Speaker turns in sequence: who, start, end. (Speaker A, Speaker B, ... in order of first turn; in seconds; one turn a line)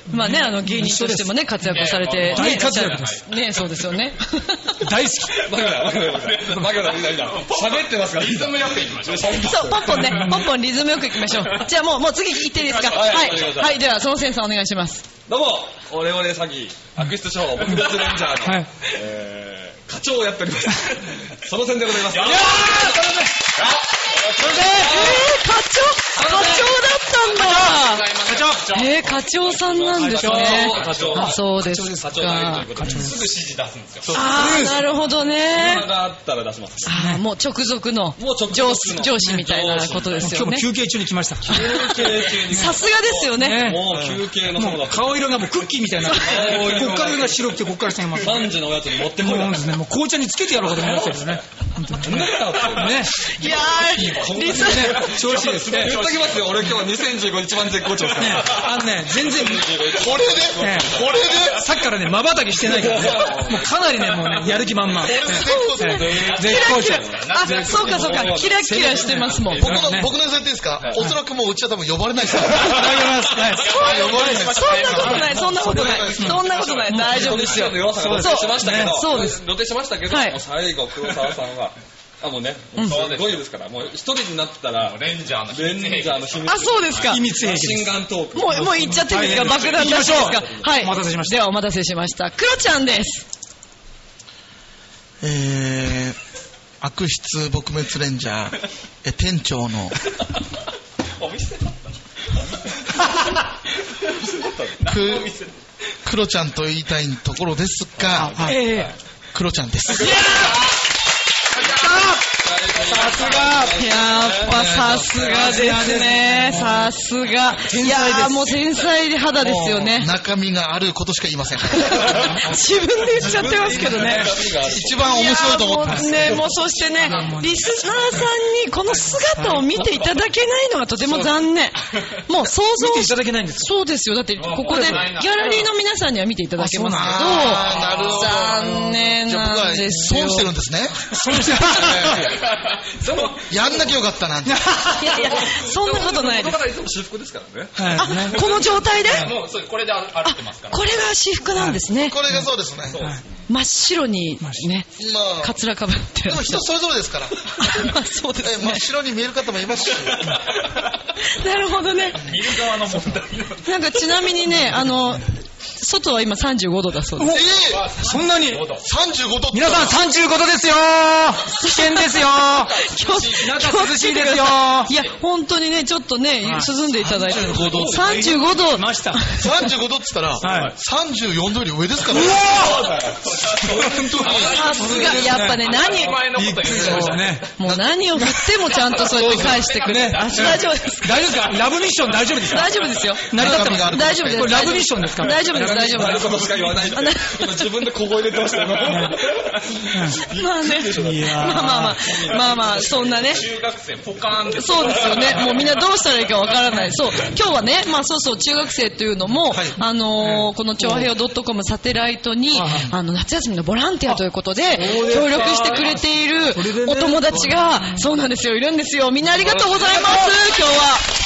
Speaker A: 0.1-1.4
Speaker B: 0.1-4.8
Speaker C: 1.6-3.9
Speaker A: 2.3-3.2
Speaker A: 4.8-5.4
Speaker D: 5.3-10.4
Speaker C: 5.5-9.9
Speaker B: 9.4-15.1
Speaker A: 9.8-10.5
Speaker C: 11.3-11.6
Speaker C: 12.7-13.6
Speaker D: 12.9-13.8
Speaker D: 15.3-22.8
Speaker C: 17.7-18.3
Speaker A: 18.4-18.7
Speaker C: 22.1-25.2
Speaker A: 22.2-23.4
Speaker A: 24.4-25.1
Speaker D: 24.8-25.2
Speaker B: 24.8-32.7
Speaker C: 26.2-29.1
Speaker A: 26.2-26.6
Speaker A: 27.4-28.7
Speaker D: 29.4-33.2
Speaker A: 30.0-33.3
Speaker C: 30.8-31.2
Speaker C: 32.9-34.2
Speaker B: 34.1-35.9
Speaker A: 34.2-34.8
Speaker D: 35.4-36.9
Speaker B: 36.9-40.7
Speaker A: 36.9-37.2
Speaker D: 38.2-40.4
Speaker A: 40.2-42.8
Speaker D: 41.5-45.4
Speaker B: 41.5-43.8
Speaker A: 43.3-48.6
Speaker B: 46.0-46.4
Speaker D: 46.2-47.4
Speaker D: 48.1-49.8
Speaker A: 49.1-53.3
Speaker D: 50.7-60.7
Speaker B: 53.3-55.1
Speaker A: 54.4-56.1
Speaker C: 55.0-56.7
Speaker A: 58.2-59.8
Speaker E: 59.9-61.7
Speaker A: 60.6-67.9
Speaker C: 61.0-61.4
Speaker D: 62.6-63.6
Speaker C: 63.1-63.5
Speaker C: 64.2-64.8
Speaker D: 64.9-69.9
Speaker E: 65.0-66.2
Speaker B: 65.3-69.7
Speaker C: 66.1-70.0
Speaker A: 68.8-69.1
Speaker E: 69.5-76.4
Speaker A: 69.7-70.1
Speaker C: 70.8-71.0
Speaker D: 70.8-71.1
Speaker A: 72.6-74.2
Speaker C: 73.4-77.8
Speaker B: 73.6-79.4
Speaker A: 74.9-75.2
Speaker A: 76.2-77.3
Speaker D: 76.5-90.7
Speaker A: 77.8-79.2
Speaker B: 80.1-80.4
Speaker B: 82.8-83.1
Speaker C: 82.8-83.4
Speaker C: 84.8-86.6
Speaker B: 86.5-87.3
Speaker A: 87.0-88.0
Speaker B: 88.3-93.2
Speaker A: 88.5-91.4
Speaker E: 95.2-96.2
Speaker E: 96.8-100.0
Speaker D: 101.2-101.6
Speaker D: 104.1-104.8
Speaker C: 104.8-105.5
Speaker E: 104.8-105.3
Speaker E: 106.0-108.5
Speaker D: 108.1-108.9
Speaker A: 108.2-108.9
Speaker E: 109.3-110.4
Speaker A: 109.9-110.6
Speaker C: 110.1-110.7
Speaker C: 111.5-112.2
Speaker A: 111.7-112.2
Speaker D: 112.4-115.7
Speaker A: 112.8-113.8
Speaker B: 113.7-120.1
Speaker E: 114.5-115.4
Speaker A: 115.1-116.9
Speaker A: 117.6-118.7
Speaker E: 119.4-122.3
Speaker B: 121.7-140.5
Speaker D: 123.1-125.2
Speaker E: 124.6-126.6
Speaker D: 126.1-126.6
Speaker C: 126.6-128.0
Speaker A: 127.0-127.7
Speaker A: 129.2-129.9
Speaker A: 132.8-133.7
Speaker C: 134.4-135.7
Speaker A: 134.7-135.1
Speaker A: 136.6-137.5
Speaker E: 136.9-142.4
Speaker C: 137.4-138.5
Speaker A: 141.1-142.2
Speaker C: 141.9-143.9
Speaker D: 143.1-143.4
Speaker E: 143.5-144.7
Speaker A: 144.5-145.2
Speaker B: 144.9-146.7
Speaker D: 145.3-148.8
Speaker A: 147.8-148.5
Speaker B: 147.9-149.4
Speaker C: 148.4-151.1
Speaker B: 150.2-152.2
Speaker A: 151.5-152.5
Speaker E: 152.0-153.0
Speaker D: 152.9-153.2
Speaker B: 153.5-154.9
Speaker E: 155.0-155.6
Speaker B: 155.4-156.6
Speaker E: 156.3-157.6
Speaker B: 157.6-158.8
Speaker E: 158.4-160.3
Speaker C: 160.1-160.8
Speaker B: 161.3-162.3
Speaker C: 162.2-163.7
Speaker B: 163.6-167.4
Speaker A: 167.2-167.4
Speaker E: 167.2-167.9
Speaker C: 167.5-168.9
Speaker A: 168.0-168.7
Speaker E: 168.8-170.0
Speaker A: 169.5-174.9
Speaker B: 171.5-179.4
Speaker C: 172.6-173.4
Speaker A: 176.4-176.7
Speaker E: 177.0-178.2
Speaker A: 177.8-179.3
Speaker E: 179.3-182.7
Speaker A: 180.4-180.7
Speaker C: 180.4-180.7
Speaker A: 182.1-183.1
Speaker D: 182.5-185.2
Speaker C: 182.5-187.4
Speaker E: 183.6-184.6
Speaker B: 184.4-191.4
Speaker A: 184.7-185.8
Speaker A: 186.3-187.5
Speaker E: 187.6-187.9
Speaker A: 188.2-188.5
Speaker C: 188.8-191.5
Speaker E: 189.0-189.7
Speaker A: 189.9-196.4
Speaker B: 192.5-197.8
Speaker E: 193.3-194.8
Speaker D: 195.3-203.5
Speaker A: 198.8-199.3
Speaker A: 199.9-200.3
Speaker B: 200.3-203.5
Speaker A: 200.9-202.0
Speaker C: 202.6-205.9
Speaker B: 204.5-221.1
Speaker D: 205.1-205.6
Speaker E: 209.5-209.8
Speaker A: 210.2-211.1
Speaker A: 212.5-212.9
Speaker A: 214.7-218.0
Speaker A: 219.7-220.4